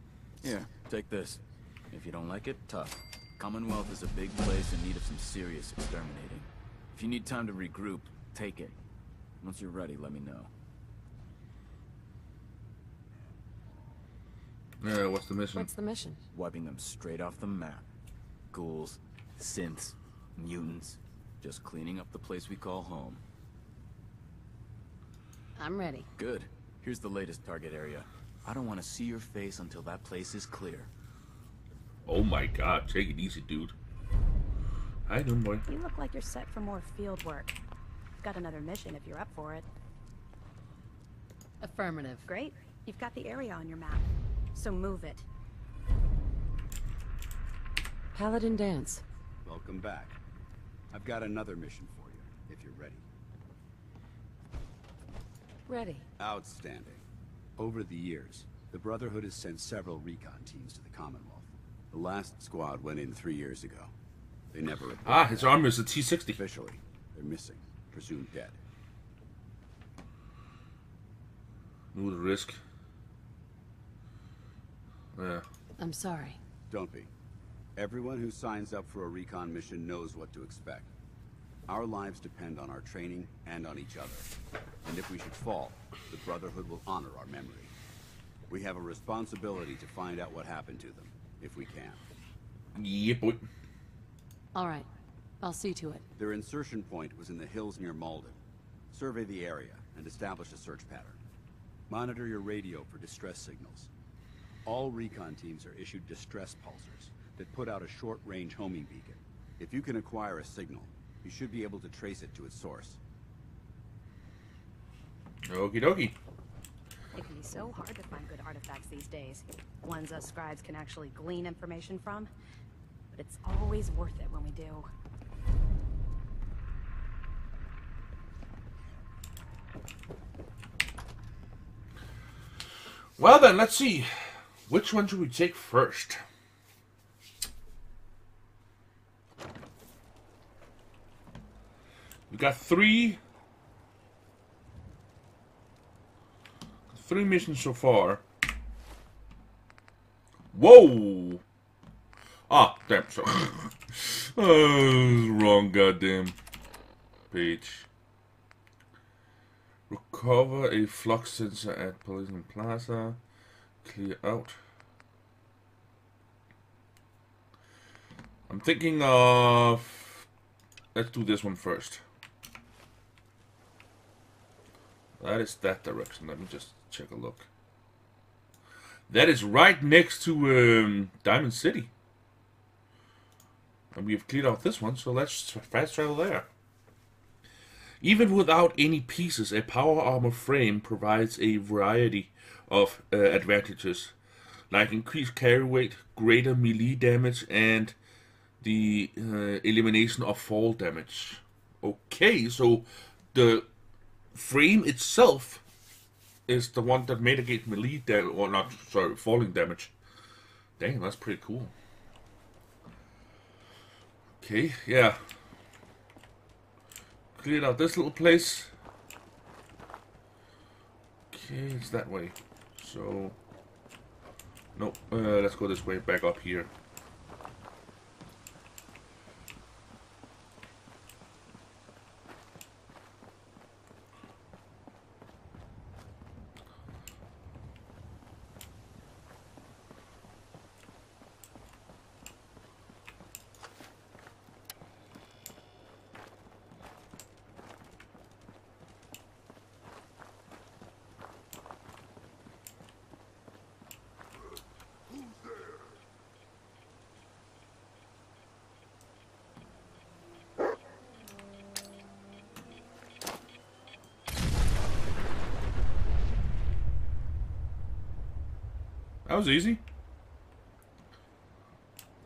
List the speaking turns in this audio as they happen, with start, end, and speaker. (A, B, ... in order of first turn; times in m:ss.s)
0:00.4-0:08.8 A
0:09.4-0:10.5 A
0:14.8-0:15.7 B
0:15.5-0:16.2 C
0:16.3-0:17.9 A
0:18.5-0:23.2 A
0:25.6-0:26.1 C
0:26.2-0:30.9 A
0:32.1-0:33.8 B
0:35.1-0:35.6 B
0:35.7-0:37.6 D
0:38.2-0:39.7 D
0:41.6-0:42.3 C
0:42.3-0:45.3 D
0:48.1-0:49.0 C
0:49.4-0:50.2 E
0:50.9-0:53.0 E
0:55.7-0:56.0 C
0:56.2-0:57.0 E
0:57.6-1:03.9 E
1:04.5-1:05.6 E
1:05.0-1:06.4 B
1:06.4-1:08.6 E
1:11.9-1:12.6 B
1:15.2-1:15.5 B
1:15.8-1:16.4 C
1:16.7-1:17.1 E
1:17.8-1:20.9 E
1:21.7-1:24.3 E
1:24.8-1:27.7 E
1:28.5-1:32.0 E
1:32.8-1:33.5 B
1:34.5-1:34.9 C
1:35.4-1:36.0 C
1:36.2-1:38.4 E
1:38.9-1:41.2 E
1:41.9-1:43.9 E
1:44.6-1:53.0 E
1:55.5-1:56.2 B
1:57.1-2:02.3 D
2:03.1-2:04.9 D
2:13.2-2:16.2 B
2:22.3-2:23.2 B
2:26.9-2:28.2 B
2:30.5-2:31.4 B
2:32.5-2:36.4 B
2:37.3-2:37.9 B
2:39.9-2:43.2 B
2:43.8-2:44.6 B
2:48.5-2:50.3 B
2:50.9-2:52.0 B
2:55.2-2:57.5 B
2:59.1-3:01.9 B
3:03.9-3:06.5 B
3:08.0-3:14.2 B
3:14.7-3:18.0 B
3:18.6-3:23.7 B
3:24.3-3:25.6 B
3:26.5-3:29.9 B
3:30.8-3:31.7 B
3:34.4-3:35.2 B
3:37.4-3:38.7 B
3:41.3-3:43.4 B
3:44.8-3:46.7 B
4:29.3-4:29.8 B